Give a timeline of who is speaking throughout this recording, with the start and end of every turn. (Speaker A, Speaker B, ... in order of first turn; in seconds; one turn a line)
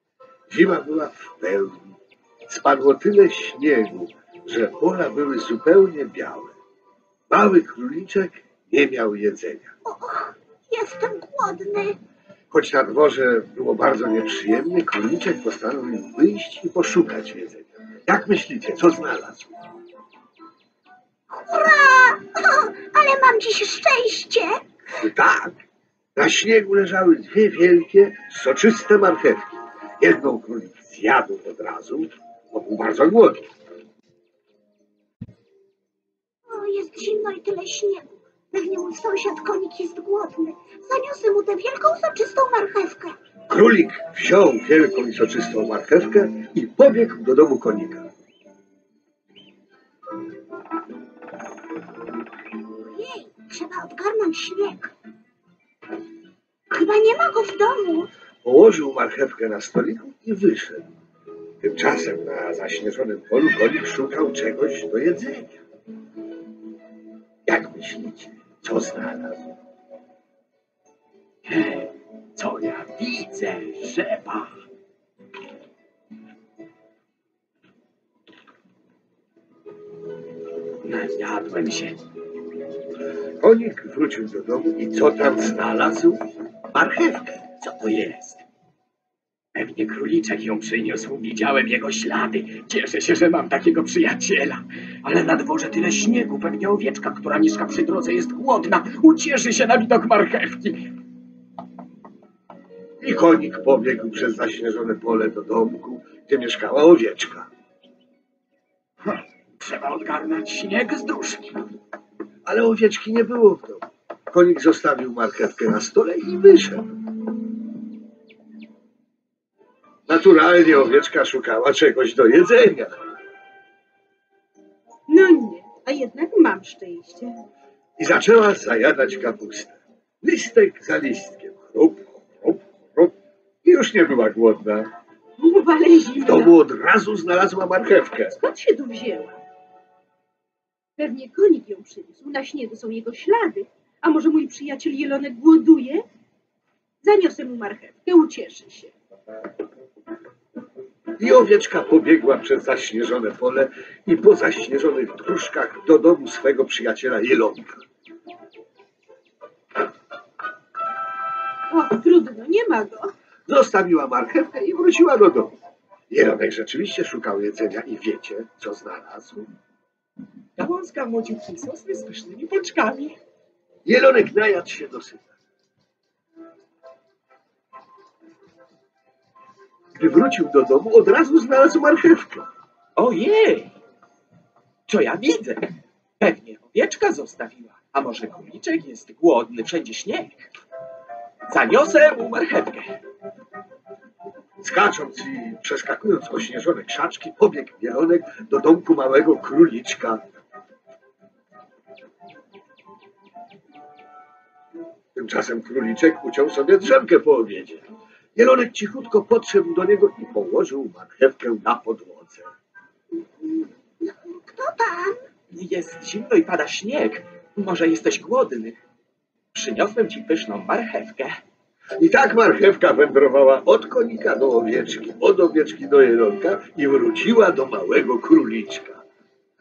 Speaker A: 0.5-1.9
Speaker A: 2.5-6.5
Speaker A: 7.3-9.8
Speaker B: 9.8-12.0
Speaker A: 12.5-19.6
Speaker B: 21.3-24.6
Speaker A: 24.9-25.6
Speaker A: 26.1-29.4
Speaker A: 30.0-33.4
Speaker B: 36.5-43.2
Speaker A: 43.5-48.1
Speaker B: 52.8-54.9
Speaker B: 56.7-58.1
Speaker A: 58.4-60.9
Speaker A: 61.6-65.6
Speaker A: 67.5-69.6
Speaker C: 71.5-74.6
Speaker C: 80.8-82.0
Speaker A: 83.4-86.2
Speaker A: 86.7-87.5
Speaker C: 87.6-88.5
Speaker C: 89.5-100.9
Speaker A: 103.0-107.5
Speaker C: 109.6-111.7
Speaker A: 112.5-116.9
Speaker A: 120.1-122.9
Speaker D: 125.1-127.3
Speaker A: 128.0-134.9
Speaker D: 135.4-136.6
Speaker A: 136.2-138.3
Speaker D: 138.3-139.4
Speaker D: 141.0-146.1
Speaker D: 147.0-148.9
Speaker A: 151.2-157.8
Speaker D: 161.7-163.1
Speaker A: 163.5-165.6
Speaker A: 166.1-169.5
Speaker C: 170.6-173.2
Speaker A: 173.8-175.2
Speaker A: 180.0-182.5
Speaker C: 183.0-183.7
Speaker C: 184.9-190.5
Speaker C: 191.5-193.0
Speaker A: 194.6-200.2
Speaker A: 205.2-207.8
Speaker A: 208.4-212.5
Speaker B: 213.3-215.2
Speaker C: 215.5-218.8
Speaker C: 219.5-221.4
Speaker A: 222.0-229.0